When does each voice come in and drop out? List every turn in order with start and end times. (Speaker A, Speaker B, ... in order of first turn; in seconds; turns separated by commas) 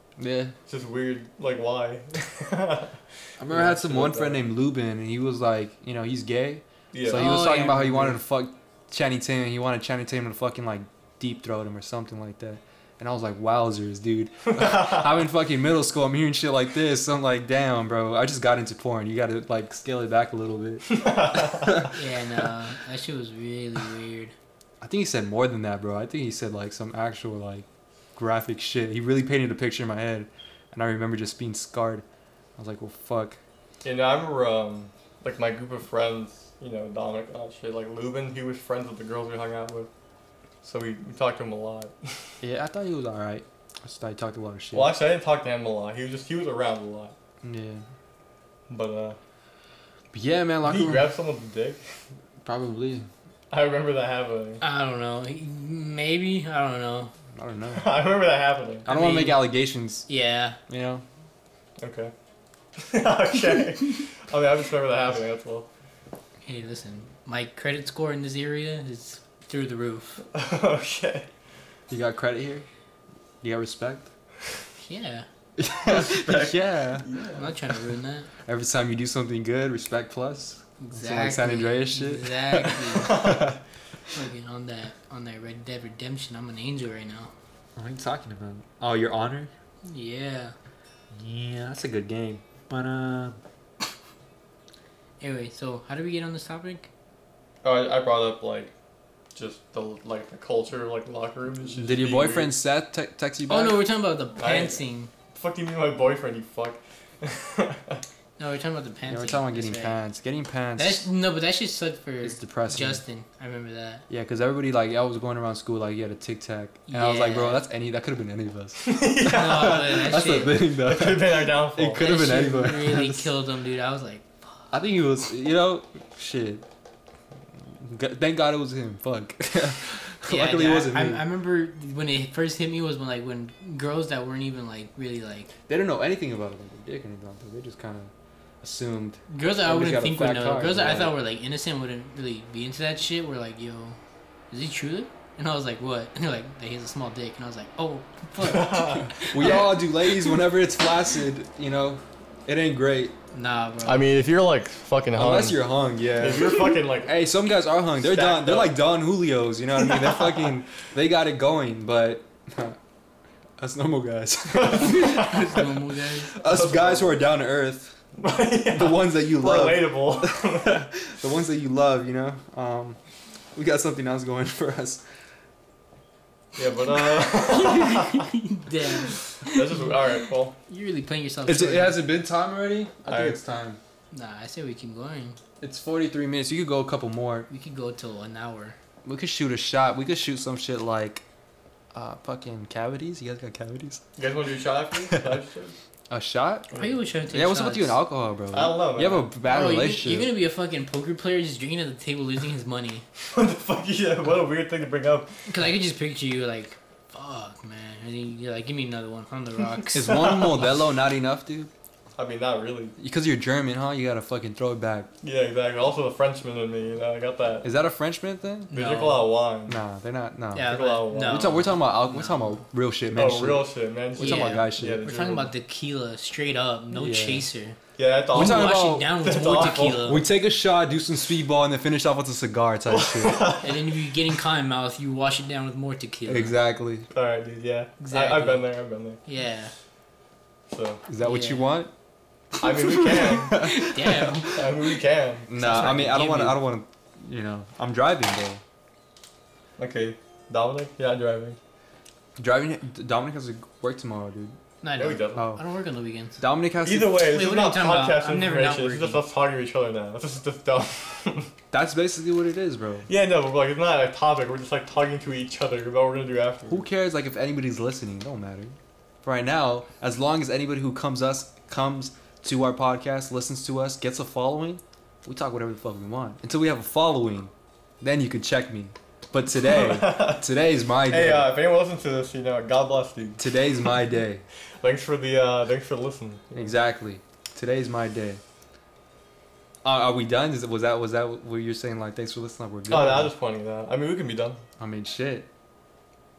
Speaker A: 0.2-0.6, Speaker B: 0.7-4.4, Speaker A: 3.4-21.9, Speaker B: 6.9-8.1, Speaker C: 7.1-8.1, Speaker B: 14.6-15.0, Speaker B: 20.9-21.9, Speaker C: 21.8-24.3, Speaker A: 24.8-32.0, Speaker A: 32.6-33.4, Speaker B: 33.8-39.9, Speaker B: 40.6-42.2, Speaker A: 42.4-45.0, Speaker B: 44.7-47.1, Speaker A: 47.4-47.8, Speaker B: 48.7-49.2, Speaker A: 50.1-51.1, Speaker B: 50.6-51.8, Speaker A: 52.4-53.1, Speaker B: 53.5-54.6, Speaker C: 54.6-57.1, Speaker A: 57.4-57.9, Speaker B: 57.8-58.9, Speaker C: 58.9-59.4, Speaker A: 58.9-60.1, Speaker C: 60.1-60.6, Speaker A: 60.7-61.0, Speaker B: 61.8-62.1, Speaker B: 62.8-65.7, Speaker C: 66.5-70.2, Speaker B: 70.3-71.3, Speaker A: 71.9-72.7, Speaker A: 73.4-74.1, Speaker C: 74.8-75.3, Speaker A: 75.6-77.1, Speaker B: 75.9-77.6, Speaker C: 77.3-78.3, Speaker A: 78.5-83.5, Speaker C: 80.8-83.3, Speaker B: 83.0-83.6, Speaker C: 84.1-87.3, Speaker A: 87.8-89.5, Speaker C: 89.9-90.5, Speaker A: 91.1-93.4, Speaker C: 95.2-96.9, Speaker B: 97.6-98.7, Speaker B: 99.3-102.5, Speaker A: 101.7-103.8, Speaker C: 103.5-105.1, Speaker B: 104.4-104.8, Speaker B: 105.3-108.0, Speaker C: 108.4-110.0, Speaker A: 109.1-111.0, Speaker C: 110.8-114.0, Speaker A: 112.2-113.0, Speaker A: 114.1-123.3, Speaker C: 116.9-117.6, Speaker B: 118.8-122.2, Speaker C: 119.2-120.5, Speaker C: 122.0-124.7, Speaker A: 124.7-126.6, Speaker A: 127.7-131.3, Speaker C: 130.3-135.5, Speaker A: 135.7-138.1, Speaker A: 138.6-141.2, Speaker C: 139.3-144.0, Speaker C: 144.5-149.8, Speaker B: 148.4-149.7, Speaker A: 149.3-153.1, Speaker C: 153.3-154.1, Speaker B: 153.8-157.2, Speaker A: 155.1-162.8, Speaker B: 158.0-158.8, Speaker B: 159.9-160.5, Speaker A: 163.6-165.4, Speaker B: 164.6-165.6, Speaker C: 164.6-166.3, Speaker B: 166.3-167.2, Speaker A: 166.3-168.0, Speaker B: 168.2-170.8, Speaker A: 168.8-173.0, Speaker A: 173.5-175.0, Speaker B: 176.6-178.3, Speaker C: 177.2-182.0, Speaker B: 179.4-180.6, Speaker A: 181.5-183.8, Speaker B: 183.1-183.4, Speaker C: 184.1-185.4, Speaker A: 185.6-187.5, Speaker C: 187.5-188.8, Speaker A: 189.1-191.2, Speaker A: 191.9-194.1, Speaker B: 194.2-195.8, Speaker A: 195.1-195.4, Speaker A: 196.1-196.7, Speaker B: 196.7-197.0, Speaker C: 196.7-198.0, Speaker A: 197.3-200.3, Speaker B: 198.5-199.3, Speaker C: 199.5-203.1, Speaker B: 203.3-205.3, Speaker C: 205.5-210.8, Speaker A: 209.9-211.7, Speaker B: 212.2-212.9, Speaker A: 213.0-215.1, Speaker B: 215.2-217.7, Speaker A: 217.6-218.7, Speaker C: 218.7-219.3, Speaker B: 218.7-219.8, Speaker A: 219.7-225.0, Speaker C: 220.5-222.6, Speaker B: 220.6-221.6, Speaker B: 223.1-225.5, Speaker C: 224.2-227.8, Speaker A: 226.9-227.5, Speaker B: 228.0-230.2, Speaker A: 228.3-233.5, Speaker C: 228.3-230.2, Speaker B: 232.9-233.9, Speaker C: 233.6-236.6, Speaker A: 236.3-237.1, Speaker B: 237.1-239.2, Speaker C: 238.0-238.7, Speaker C: 239.3-239.7, Speaker B: 240.7-241.0, Speaker A: 241.1-241.9, Speaker C: 241.2-241.7, Speaker A: 242.6-244.7, Speaker B: 242.6-243.7, Speaker C: 243.5-244.7, Speaker B: 244.5-245.9, Speaker A: 245.5-248.6, Speaker C: 245.5-246.6, Speaker B: 249.8-251.6, Speaker A: 252.4-254.6, Speaker C: 254.8-256.4, Speaker B: 255.0-255.4, Speaker A: 255.4-255.6, Speaker A: 256.4-257.2, Speaker B: 256.8-261.5, Speaker C: 257.2-259.2, Speaker A: 261.7-263.1, Speaker B: 263.1-266.8, Speaker A: 266.7-281.5, Speaker B: 279.6-280.5, Speaker B: 281.1-283.5, Speaker A: 283.4-284.4, Speaker B: 284.8-286.7, Speaker A: 286.5-288.4, Speaker A: 289.8-293.3, Speaker B: 292.9-294.6, Speaker A: 294.8-295.5